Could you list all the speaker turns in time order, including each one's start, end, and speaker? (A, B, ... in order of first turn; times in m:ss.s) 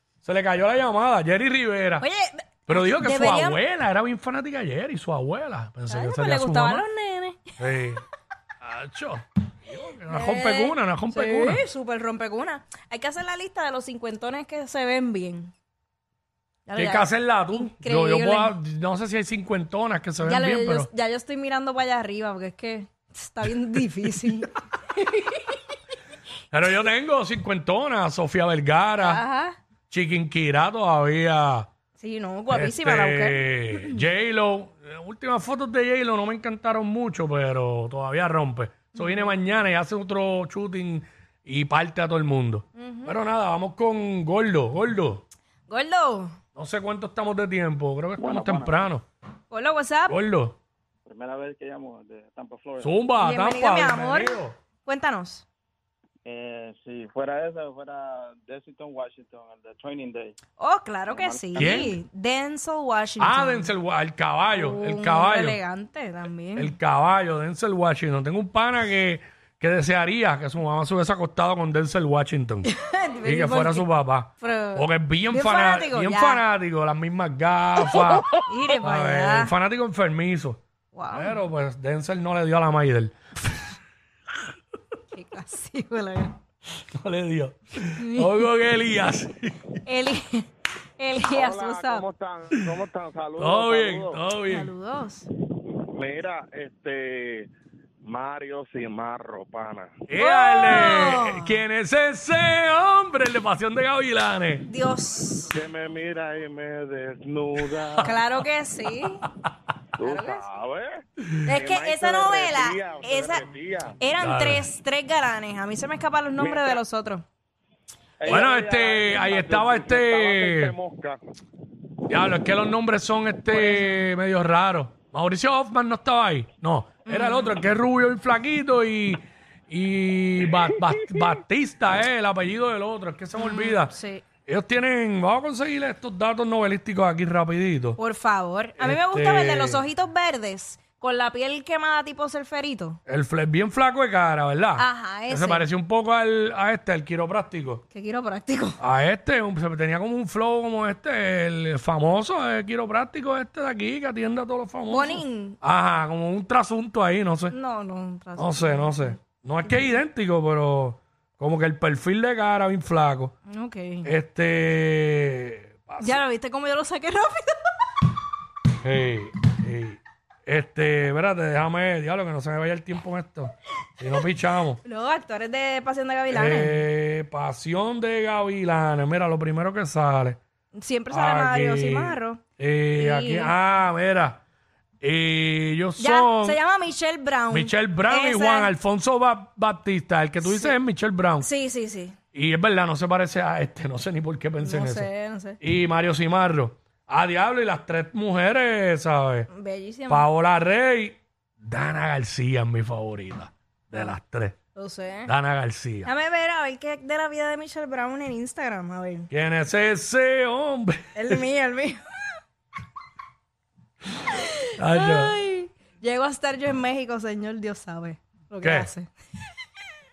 0:00.2-0:02.0 A
0:02.0-0:03.6 B
0:02.7-0:06.8 A
0:05.9-0:07.4 B
0:07.6-0:08.0 A
0:08.6-0:11.6 A
0:10.1-0:15.5 B
0:16.7-0:18.5 B
0:16.8-0:20.9 A
0:20.2-0:25.6 B
0:26.5-0:29.2 A
0:29.0-0:29.6 B
0:29.9-0:31.7 A
0:32.0-0:34.0 B
0:32.5-0:45.2 A
0:39.0-0:39.3 B
0:42.8-0:43.2 B
0:45.7-0:46.4 B
0:46.6-0:49.0 A
0:48.2-0:48.8 C
0:49.5-0:50.2 B
0:50.1-0:50.6 A
0:51.1-0:52.9 C
0:52.8-0:54.6 A
0:53.2-0:55.4 B
0:56.2-1:00.3 C
1:00.6-1:03.7 B
1:01.1-1:01.9 C
1:01.6-1:02.0 A
1:03.2-1:05.6 A
1:04.5-1:06.7 B
1:06.6-1:12.7 A
1:12.6-1:16.4 B
1:13.2-1:18.3 A
1:18.4-1:19.5 B
1:18.8-1:20.6 A
1:20.9-1:21.4 B
1:21.1-1:23.1 A
1:25.1-1:26.4 B
1:27.0-1:29.7 A
1:28.0-1:28.4 B
1:29.9-1:30.5 B
1:31.0-1:32.1 B
1:31.3-1:34.2 D
1:33.4-1:34.7 A
1:34.4-1:35.3 B
1:35.9-1:37.5 D
1:38.0-1:39.9 D
1:40.1-1:44.7 A
1:40.2-1:41.6 B
1:44.7-1:45.5 B
1:45.5-1:48.1 D
1:47.6-1:48.2 A
1:48.0-1:49.3 B
1:50.0-1:54.0 D
1:50.0-1:50.4 B
1:51.5-1:57.2 B
1:54.2-1:54.7 A
1:56.4-1:56.8 D
1:58.2-2:01.2 D
1:58.2-2:00.8 A
2:02.1-2:13.9 A
2:03.5-2:04.0 B
2:07.1-2:07.6 B
2:13.4-2:14.2 B
2:14.5-2:18.0 A
2:18.0-2:23.0 B
2:18.8-2:19.9 A
2:23.1-2:27.8 A
2:24.8-2:25.7 B
2:27.9-2:28.8 B
2:28.8-2:37.6 A
2:34.9-2:35.6 B
2:37.5-2:39.2 B
2:38.4-2:43.3 A
2:43.5-2:44.1 B
2:44.0-2:46.2 A
2:46.0-2:47.6 B
2:48.8-2:54.8 A
2:54.8-2:56.8 B
2:56.3-3:00.4 A
3:00.8-3:02.4 B
3:01.1-3:04.4 A
3:02.9-3:03.5 B
3:05.0-3:06.6 A
3:06.0-3:08.7 B
3:07.5-3:11.5 A
3:10.4-3:10.8 B
3:11.4-3:12.2 B
3:12.3-3:15.1 A
3:14.6-3:15.6 B
3:15.6-3:19.5 A
3:19.5-3:20.3 B
3:20.1-3:24.6 A
3:24.8-3:25.3 B
3:25.2-3:26.1 A
3:26.0-3:29.3 B
3:29.3-3:31.4 A
3:31.2-3:32.4 B
3:34.3-3:39.1 B
3:34.8-3:35.4 A
3:38.6-3:38.9 A